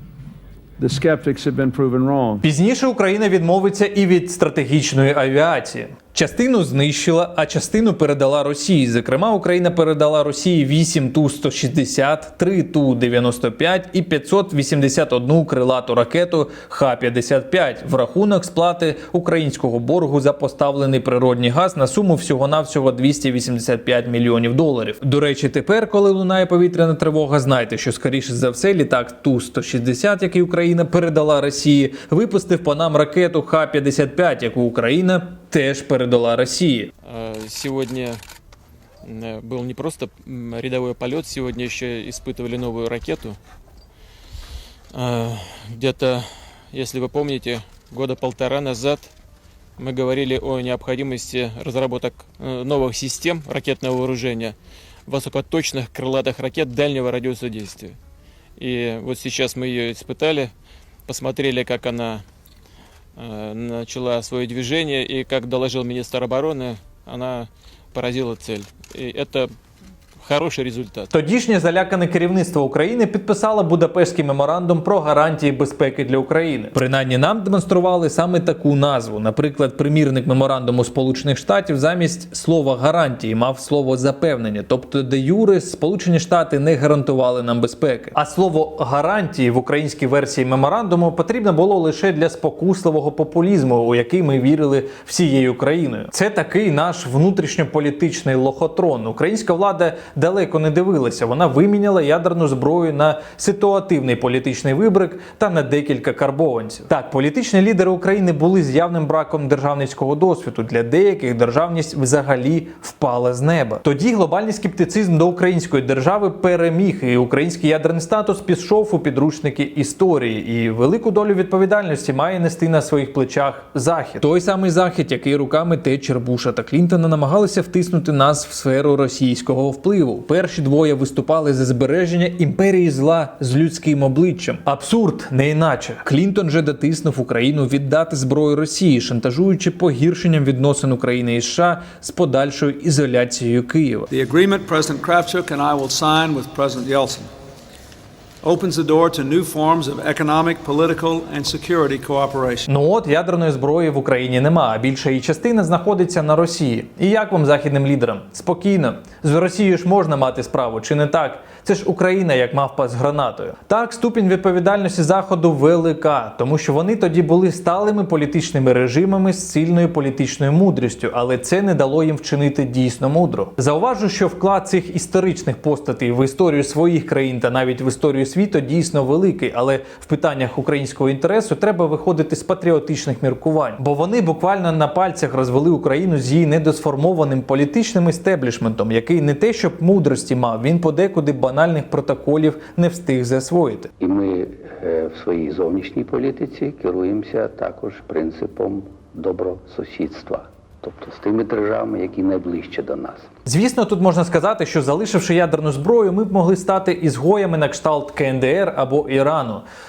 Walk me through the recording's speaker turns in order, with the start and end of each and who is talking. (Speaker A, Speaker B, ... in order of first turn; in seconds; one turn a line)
Speaker A: 0.8-2.4
Speaker B: 2.4-36.9
Speaker C: 37.0-38.2
Speaker C: 39.0-43.4
Speaker C: 44.9-49.1
Speaker C: 49.8-54.5
Speaker C: 55.1-58.0
Speaker C: 58.6-60.5
Speaker C: 61.1-62.2
Speaker C: 63.2-69.5
Speaker C: 70.2-71.1
Speaker B: 71.1-144.1
Speaker A: 144.1-147.3
Speaker A: 148.4-152.7
Speaker B: 152.7-193.9
Speaker D: 194.0-203.2
Speaker B: 203.4-209.6